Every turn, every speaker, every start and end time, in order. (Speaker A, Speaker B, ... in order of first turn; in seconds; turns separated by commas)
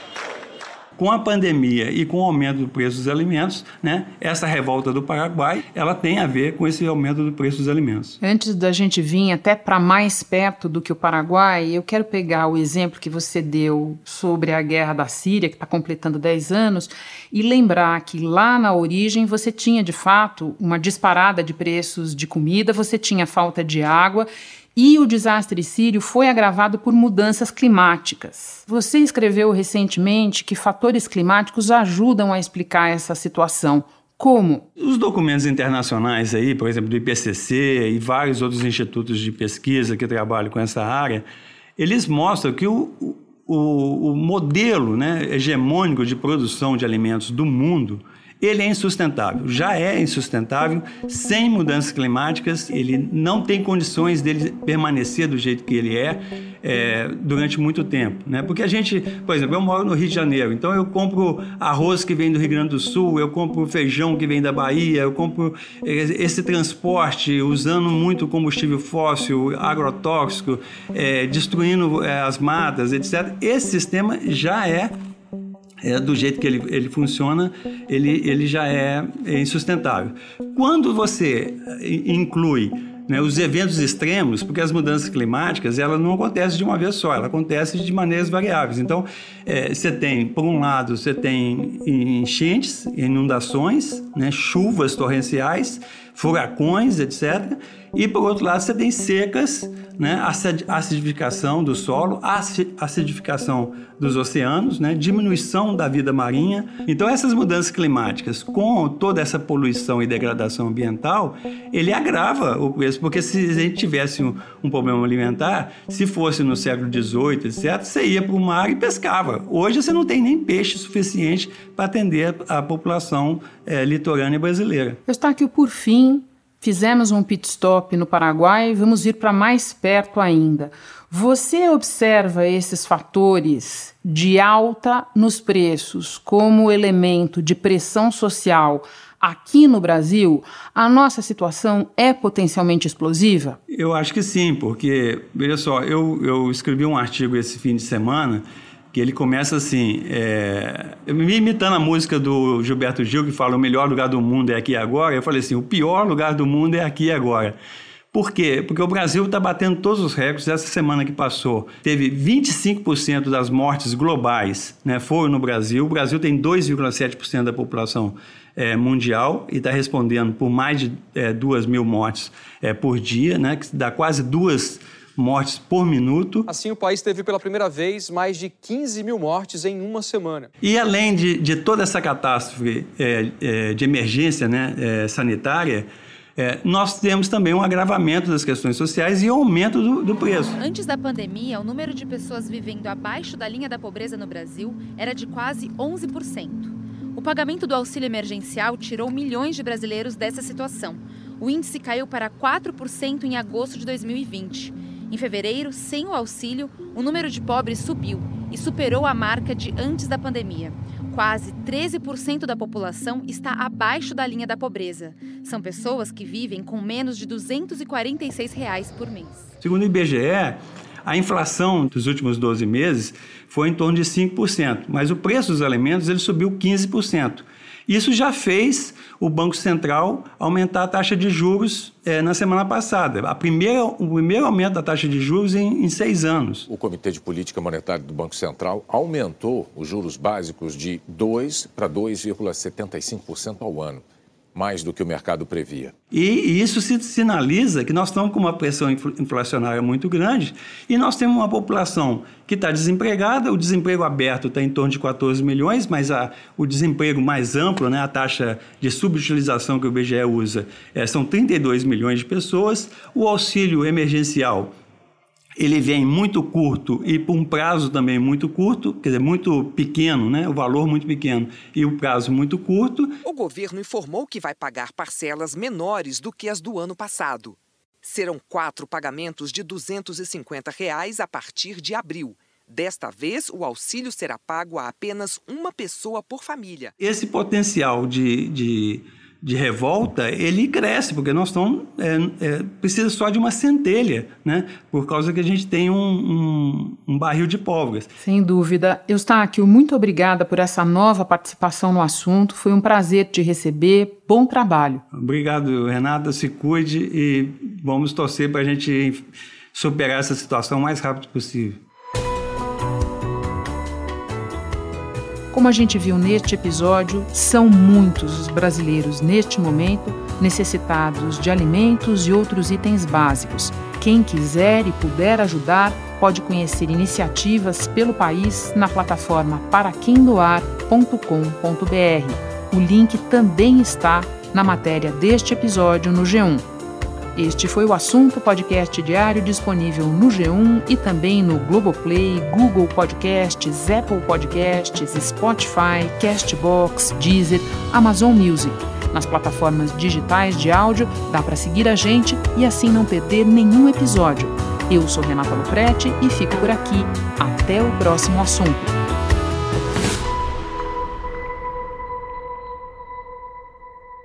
Speaker A: 1.0-8.2, Speaker B: 8.2-34.6, Speaker A: 34.8-41.2, Speaker A: 41.8-74.9, Speaker A: 75.8-125.0, Speaker B: 125.1-143.6, Speaker A: 143.7-157.6, Speaker A: 158.1-176.5, Speaker C: 176.5-180.5, Speaker A: 180.6-190.6, Speaker D: 190.6-219.5, Speaker A: 219.6-236.7, Speaker E: 236.7-245.9, Speaker A: 246.1-264.7, Speaker A: 265.6-273.1, Speaker F: 273.2-286.9, Speaker A: 287.0-298.1, Speaker B: 298.2-305.0, Speaker A: 305.1-309.2, Speaker A: 309.7-311.8, Speaker B: 315.5-336.6, Speaker B: 337.3-358.9